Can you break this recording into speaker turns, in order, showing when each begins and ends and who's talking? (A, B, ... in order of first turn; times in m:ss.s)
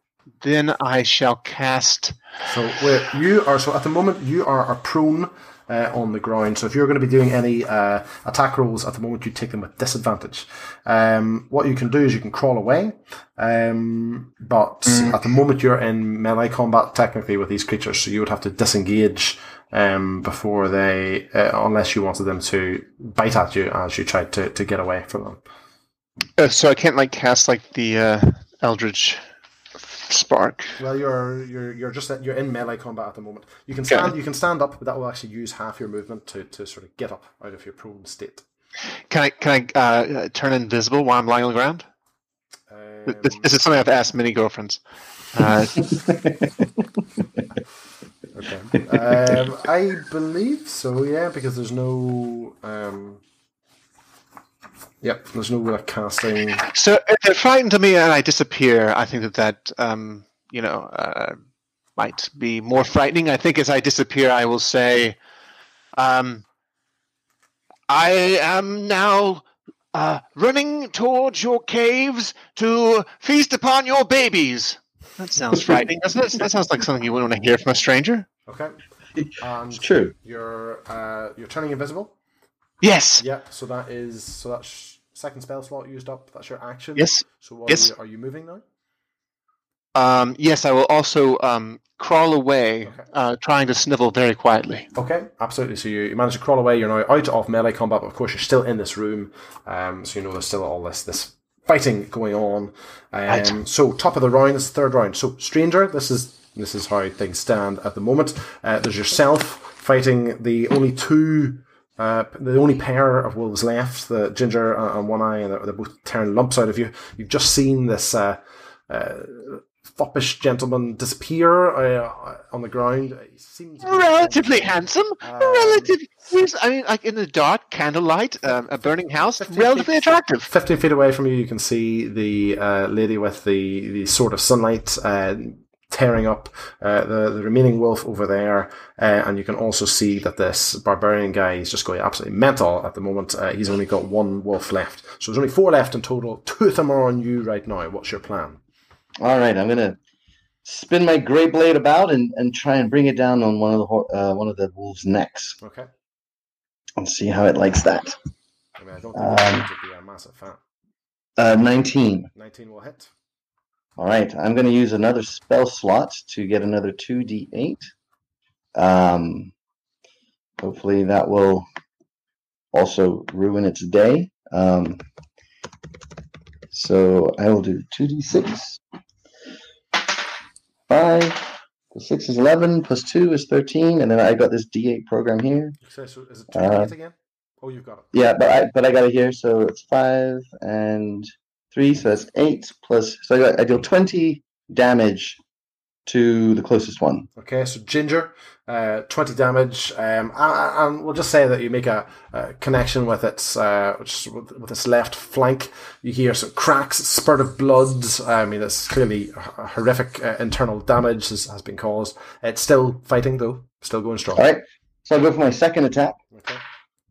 0:00.4-0:02.2 A
0:02.4-0:25.4 B
0:14.9-0:15.2 A
0:26.4-0:29.2 A
0:29.8-0:30.8 A
0:30.8-0:38.4 B
0:39.1-0:41.8 A
0:42.7-0:43.6 B
0:43.1-0:44.8 A
0:45.3-0:46.0 A
0:46.0-0:46.3 C
0:48.3-0:53.2 B
0:55.0-0:56.6 B
0:56.6-1:01.4 A
1:02.0-1:05.2 A
1:06.0-1:06.4 A
1:07.9-1:18.3 A
1:18.5-1:18.8 B
1:19.2-1:20.1 C
1:19.4-1:22.1 B
1:22.8-1:23.2 A
1:23.2-1:28.6 B
1:27.0-1:27.9 A
1:29.9-1:34.9 A
1:34.9-2:05.9 B
1:43.3-1:43.6 A
2:03.8-2:10.5 A
2:09.4-2:28.6 B
2:29.2-2:30.0 C
2:30.6-2:35.6 C
2:35.6-2:35.9 B
2:37.0-2:38.2 C
2:38.8-2:40.6 B
2:39.1-2:39.7 C
2:41.4-2:42.3 C
2:42.4-2:43.1 B
2:44.0-2:47.9 C
2:48.7-2:49.5 C
2:50.6-2:51.7 C
2:52.7-2:55.0 C
2:56.7-2:58.8 C
3:00.9-3:05.8 C
3:05.8-3:08.1 B
3:06.5-3:06.9 C
3:08.1-3:15.4 C
3:16.0-3:17.3 C
3:17.4-3:34.4 B
3:34.3-3:36.2 C
3:36.3-3:36.6 B